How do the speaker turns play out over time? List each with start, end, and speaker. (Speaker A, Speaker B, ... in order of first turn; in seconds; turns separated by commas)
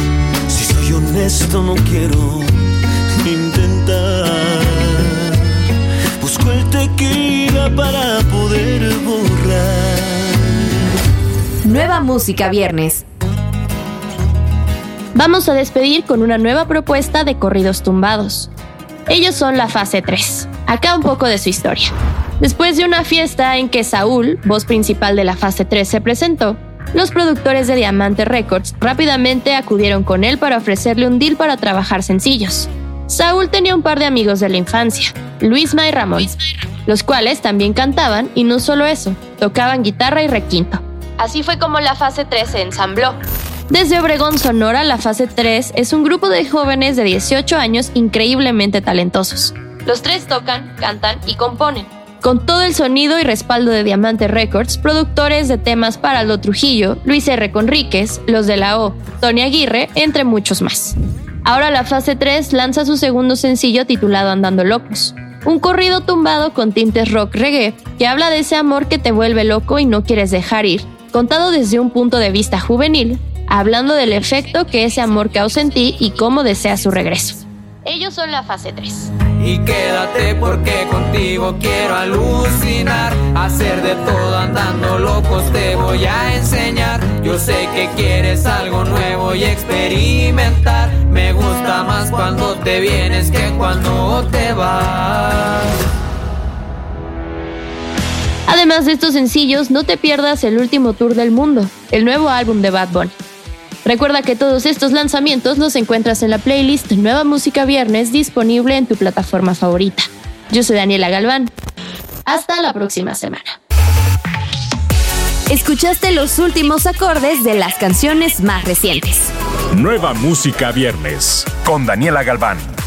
Speaker A: 0.5-10.7, Speaker B: 11.6-13.0, Speaker C: 15.2-18.5, Speaker C: 19.1-43.2, Speaker C: 43.7-79.1, Speaker D: 79.4-95.7, Speaker C: 98.5-103.2, Speaker C: 103.8-111.5, Speaker C: 112.3-113.6, Speaker B: 115.5-119.3, Speaker E: 119.7-122.7